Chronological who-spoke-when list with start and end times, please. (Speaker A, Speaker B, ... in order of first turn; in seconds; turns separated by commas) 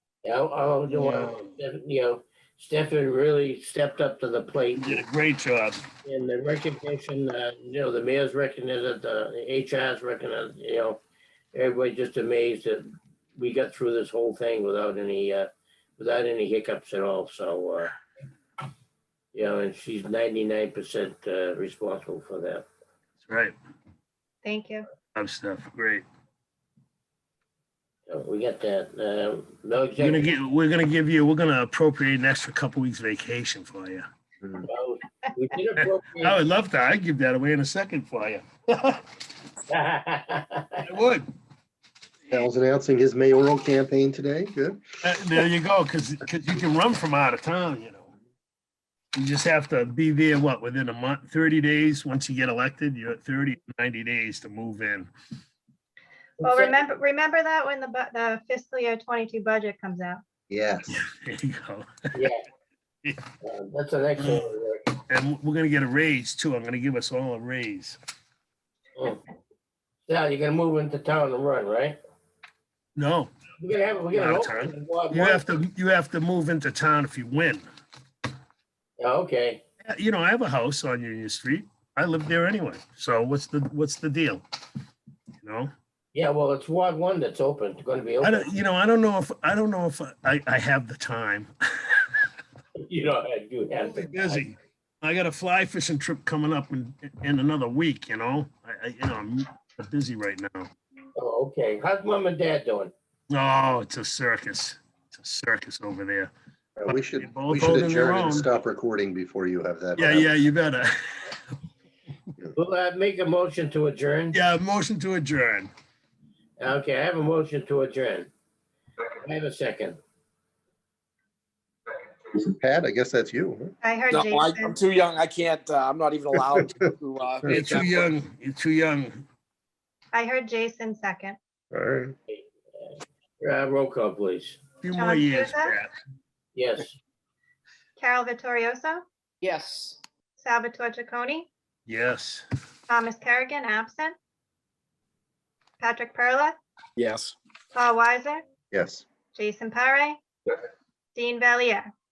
Speaker A: 0.2-5.0, Speaker B: 1.0-1.3, Speaker B: 4.8-5.8, Speaker A: 6.0-11.0, Speaker A: 11.5-17.9, Speaker A: 19.3-22.6, Speaker B: 23.2-23.5, Speaker C: 24.4-24.9, Speaker B: 25.1-26.0, Speaker A: 28.1-30.3, Speaker B: 30.0-34.0, Speaker D: 34.4-34.7, Speaker A: 34.6-36.4, Speaker B: 35.8-39.0, Speaker A: 39.7-40.8, Speaker B: 40.8-41.3, Speaker D: 42.3-44.8, Speaker B: 45.0-48.1, Speaker B: 49.1-55.1, Speaker A: 56.4-56.8, Speaker C: 56.4-60.2, Speaker D: 60.5-61.0, Speaker B: 60.9-62.3, Speaker A: 62.1-62.4, Speaker A: 63.4-64.9, Speaker B: 64.2-64.5, Speaker B: 65.1-68.0, Speaker A: 70.1-72.0, Speaker B: 73.0-73.3, Speaker A: 73.6-75.4, Speaker B: 74.1-77.6, Speaker A: 79.0-79.6, Speaker B: 79.9-84.4, Speaker B: 85.4-85.7, Speaker A: 86.1-88.5, Speaker B: 88.2-92.2, Speaker A: 92.8-94.5, Speaker B: 93.8-100.7, Speaker A: 101.2-102.9, Speaker B: 103.3-106.3, Speaker D: 106.8-110.3, Speaker B: 106.9-108.5, Speaker B: 110.0-111.4, Speaker A: 112.5-114.4, Speaker B: 114.3-115.7, Speaker A: 116.6-118.3, Speaker A: 119.2-120.0, Speaker D: 122.3-123.7, Speaker C: 123.8-124.8, Speaker E: 124.1-128.1, Speaker B: 127.5-129.2, Speaker C: 130.1-131.4, Speaker D: 131.7-132.1, Speaker A: 132.3-134.6, Speaker B: 134.8-135.9, Speaker C: 134.9-135.7, Speaker A: 136.5-136.9, Speaker C: 138.0-139.0, Speaker E: 139.4-140.0, Speaker C: 140.4-141.5, Speaker B: 141.9-142.4, Speaker C: 142.9-144.1, Speaker C: 145.8-146.6, Speaker E: 147.0-147.3, Speaker C: 147.7-148.4, Speaker D: 148.7-149.0, Speaker C: 149.3-150.2, Speaker C: 151.1-151.9